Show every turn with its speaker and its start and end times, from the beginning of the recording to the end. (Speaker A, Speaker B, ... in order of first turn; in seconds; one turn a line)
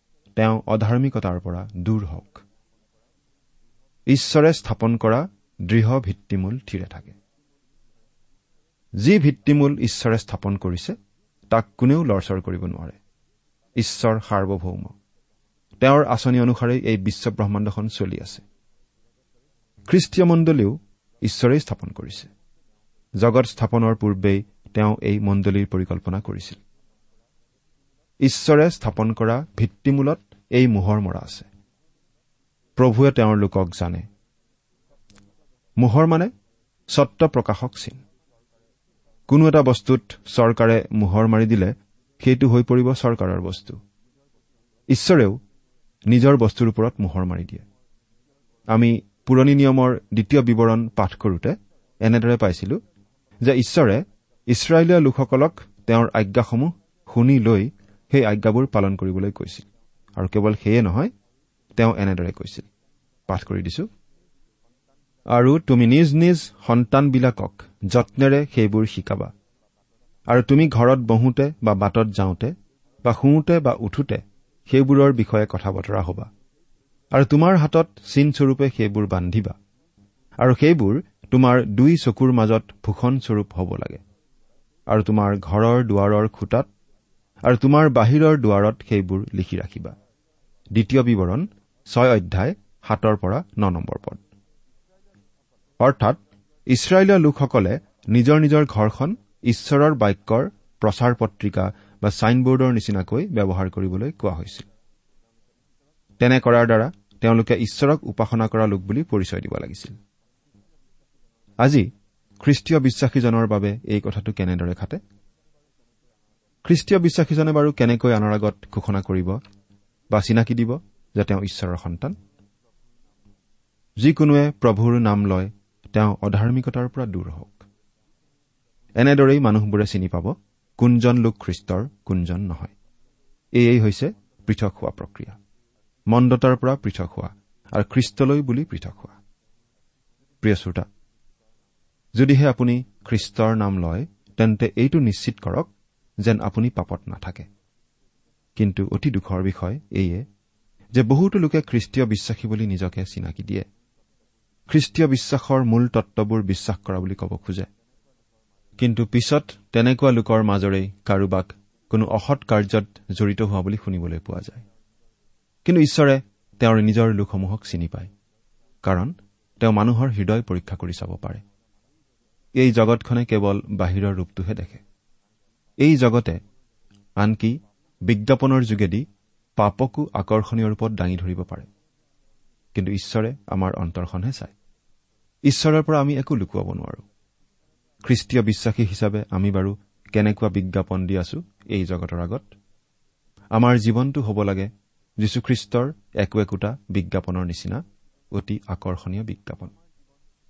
Speaker A: 0.4-2.4
Speaker A: 4.1-7.2
Speaker A: 9.0-10.9
Speaker A: 11.5-13.0
Speaker A: 13.8-14.9
Speaker A: 15.8-18.4
Speaker A: 19.9-22.3
Speaker A: 23.2-26.6
Speaker A: 28.2-31.5
Speaker A: 32.8-34.0
Speaker A: 35.8-36.3
Speaker A: 36.9-38.0
Speaker A: 39.3-43.8
Speaker A: 44.9-45.4
Speaker A: 46.1-47.6
Speaker A: 48.7-52.8
Speaker A: 53.4-61.1
Speaker A: 61.8-62.7
Speaker A: 63.3-63.9
Speaker A: 65.3-69.3
Speaker A: 70.3-72.5
Speaker A: 73.0-76.3
Speaker A: 77.1-79.5
Speaker A: 80.4-84.0
Speaker A: 84.9-86.7
Speaker A: 87.5-89.9
Speaker A: 90.7-94.2
Speaker A: 95.8-96.2
Speaker A: 96.7-104.7
Speaker A: 106.2-110.0
Speaker A: 112.4-115.0
Speaker A: 116.6-119.4
Speaker A: 120.1-122.2
Speaker A: 124.0-127.6
Speaker A: 129.0-132.7
Speaker A: 133.6-135.4
Speaker A: 136.1-139.2
Speaker A: 140.4-140.9
Speaker A: 142.2-145.7
Speaker A: 146.2-147.5
Speaker A: 148.6-150.2
Speaker A: 150.9-153.7
Speaker A: 154.7-157.7
Speaker A: 158.8-164.6
Speaker A: 165.6-168.1
Speaker A: 168.8-171.4
Speaker A: 172.6-174.8
Speaker A: 175.8-176.4
Speaker A: 177.2-177.6
Speaker A: 178.1-179.0
Speaker A: 179.6-181.7
Speaker A: 182.7-184.5
Speaker A: 185.5-187.0
Speaker A: 188.1-192.5
Speaker A: 193.5-194.7
Speaker A: 195.2-197.8
Speaker A: 198.3-199.7